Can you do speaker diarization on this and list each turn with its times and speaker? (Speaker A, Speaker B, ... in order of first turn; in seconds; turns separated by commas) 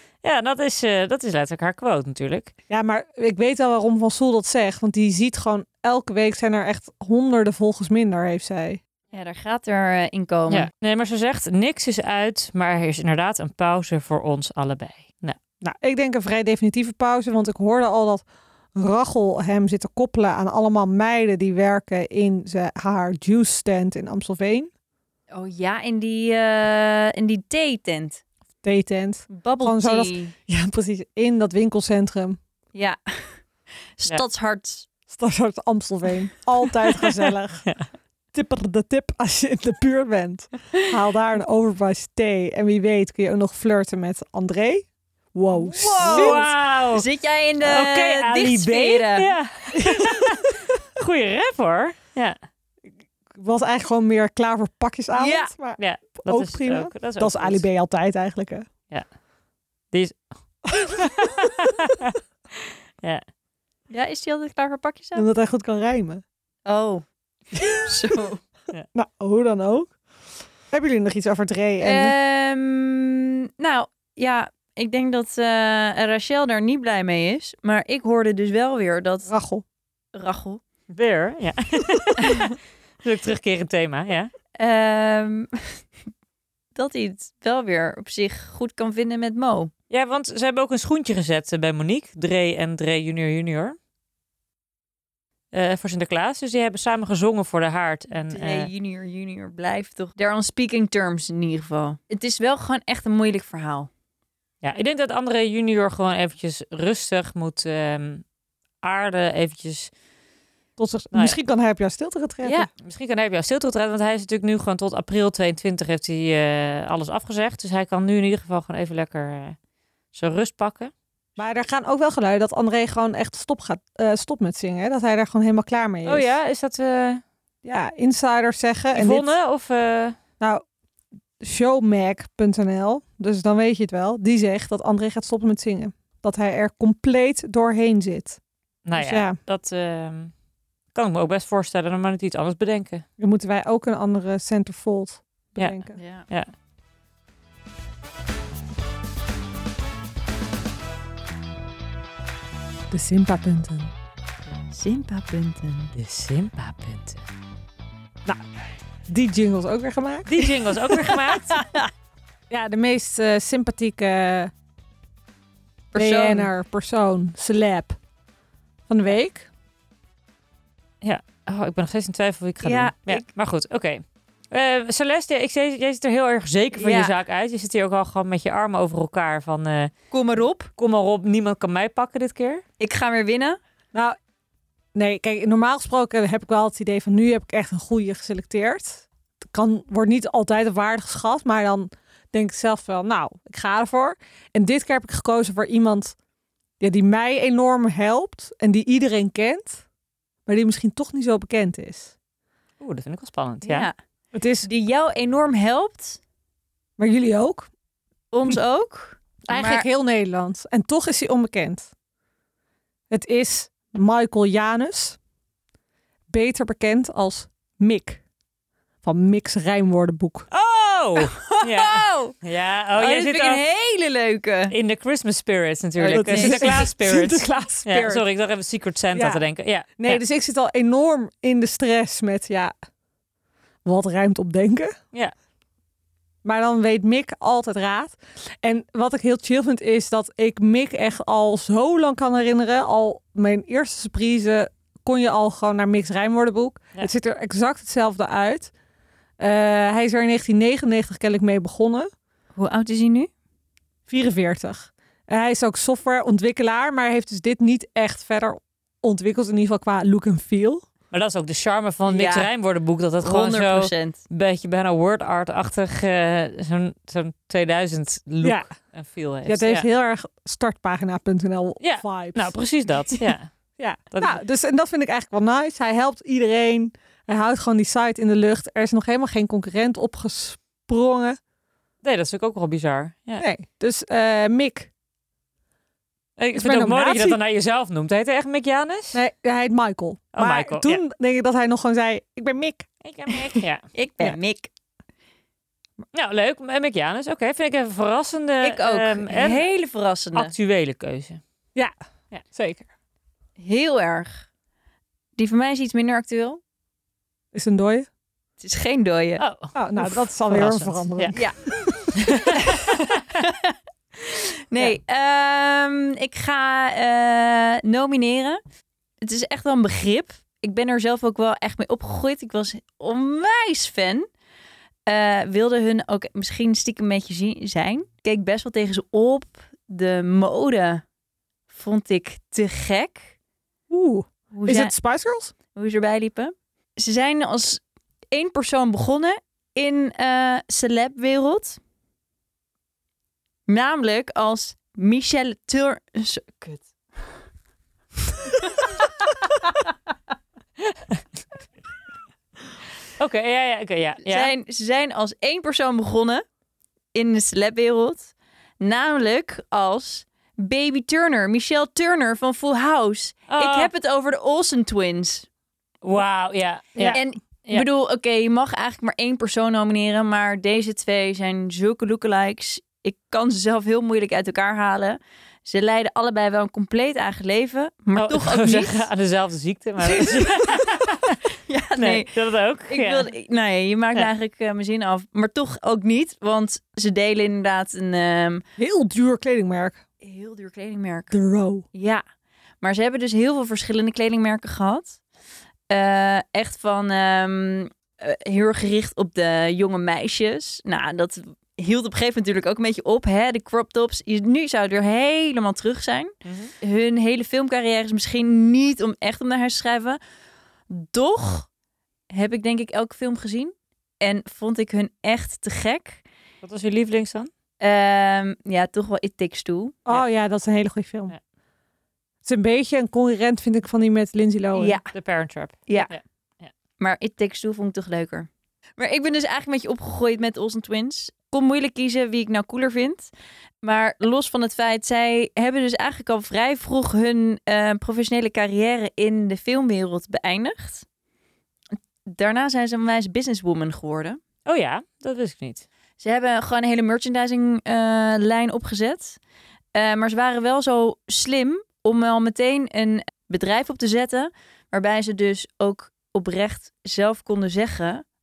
Speaker A: 0.2-2.5, Speaker B: 2.7-8.8, Speaker C: 9.1-10.7, Speaker A: 10.5-15.4, Speaker B: 15.6-24.7, Speaker C: 25.3-28.2, Speaker B: 28.6-32.4, Speaker C: 29.3-30.3, Speaker C: 32.7-33.4, Speaker C: 34.0-34.9, Speaker B: 35.1-37.7, Speaker B: 38.3-46.4, Speaker C: 45.5-49.3, Speaker A: 46.0-47.0, Speaker A: 47.6-52.4, Speaker B: 49.7-50.3, Speaker B: 53.3-58.7, Speaker C: 55.1-55.5, Speaker A: 55.8-57.6, Speaker A: 59.9-60.2, Speaker A: 60.7-63.2, Speaker C: 63.9-65.2, Speaker B: 65.1-66.2, Speaker C: 66.7-67.0, Speaker B: 67.5-67.8, Speaker C: 67.7-68.4, Speaker B: 68.9-69.9, Speaker B: 70.7-72.1, Speaker C: 71.8-79.3, Speaker B: 79.3-79.6, Speaker C: 80.1-80.6, Speaker A: 80.9-84.3, Speaker C: 84.6-85.8, Speaker C: 86.7-89.7, Speaker A: 89.9-93.8, Speaker A: 95.5-98.7, Speaker C: 98.3-103.9, Speaker A: 104.6-108.2, Speaker A: 108.8-109.9, Speaker B: 110.8-112.7, Speaker A: 111.1-111.4, Speaker A: 112.8-119.6, Speaker A: 120.1-120.9, Speaker B: 121.4-126.3, Speaker A: 126.0-127.2, Speaker B: 127.6-129.3, Speaker A: 128.9-130.2, Speaker B: 131.4-138.4, Speaker A: 138.8-140.3, Speaker B: 138.9-139.4, Speaker A: 140.9-143.0, Speaker B: 143.2-145.9, Speaker C: 145.9-146.2, Speaker B: 152.9-153.9, Speaker C: 154.6-155.9, Speaker A: 155.9-157.2, Speaker B: 159.1-160.5, Speaker A: 160.3-161.6, Speaker C: 160.9-161.9, Speaker B: 162.5-164.5, Speaker C: 165.9-166.5, Speaker B: 165.9-168.0, Speaker B: 168.9-169.5, Speaker A: 171.0-179.9, Speaker C: 172.6-173.2, Speaker C: 176.7-177.1, Speaker C: 180.1-180.7, Speaker A: 180.8-182.6, Speaker C: 182.8-183.6, Speaker B: 184.9-196.2, Speaker B: 196.8-199.8, Speaker B: 200.4-202.1, Speaker A: 202.8-203.9, Speaker C: 203.6-203.9, Speaker B: 204.3-204.7, Speaker C: 204.6-206.2, Speaker B: 207.0-207.7, Speaker C: 208.3-209.9, Speaker B: 209.5-211.9, Speaker B: 213.1-215.2, Speaker B: 216.3-218.2, Speaker B: 219.0-220.5, Speaker A: 220.5-223.6, Speaker C: 221.2-222.3, Speaker C: 222.9-224.7, Speaker A: 224.7-230.2, Speaker C: 226.0-226.8, Speaker B: 226.1-228.2, Speaker B: 229.1-229.4, Speaker B: 230.0-232.7, Speaker B: 233.8-234.9, Speaker B: 236.4-248.7, Speaker B: 249.4-252.1, Speaker C: 252.5-253.3, Speaker B: 254.1-260.9, Speaker A: 261.1-269.9, Speaker C: 262.1-262.5, Speaker C: 263.2-264.2, Speaker B: 268.4-268.7, Speaker B: 269.4-272.5, Speaker A: 271.8-273.5, Speaker B: 273.1-281.4, Speaker A: 274.1-274.4, Speaker A: 282.0-283.4, Speaker B: 283.4-284.9, Speaker A: 286.4-289.2, Speaker B: 286.5-287.4, Speaker B: 289.1-293.6, Speaker A: 290.3-291.0, Speaker A: 293.0-293.8, Speaker C: 293.9-294.7, Speaker A: 296.1-299.6, Speaker C: 298.6-300.5, Speaker A: 300.3-301.4, Speaker B: 302.4-302.9, Speaker C: 303.6-304.4, Speaker C: 305.4-306.6, Speaker B: 307.5-308.1, Speaker C: 308.6-309.4, Speaker A: 309.4-311.4, Speaker B: 309.7-312.4, Speaker A: 312.1-313.1, Speaker C: 312.5-318.6, Speaker C: 319.2-324.2, Speaker C: 325.1-331.0, Speaker C: 331.7-333.3, Speaker B: 333.9-335.5, Speaker C: 334.5-334.9, Speaker C: 335.7-341.8, Speaker C: 343.7-346.9, Speaker C: 348.5-349.9, Speaker A: 353.2-354.5, Speaker C: 354.2-356.4, Speaker C: 357.1-365.5, Speaker A: 363.5-363.9, Speaker A: 366.0-367.9, Speaker C: 367.1-379.1, Speaker A: 378.2-381.4, Speaker C: 381.7-382.3, Speaker A: 382.0-383.3, Speaker C: 382.9-388.6, Speaker B: 388.8-390.0, Speaker C: 390.2-391.3, Speaker B: 391.3-391.9, Speaker C: 391.9-392.2, Speaker C: 392.8-395.2, Speaker C: 395.9-410.2, Speaker A: 406.4-406.7, Speaker C: 410.9-411.7, Speaker C: 412.3-416.2, Speaker A: 416.6-417.5, Speaker C: 417.8-419.9, Speaker B: 420.1-421.3, Speaker B: 422.4-425.0, Speaker C: 424.7-425.1, Speaker A: 425.1-426.7, Speaker C: 427.0-433.3, Speaker C: 433.8-441.1, Speaker C: 442.3-444.4, Speaker A: 444.6-445.9, Speaker C: 446.2-449.4, Speaker C: 449.9-458.2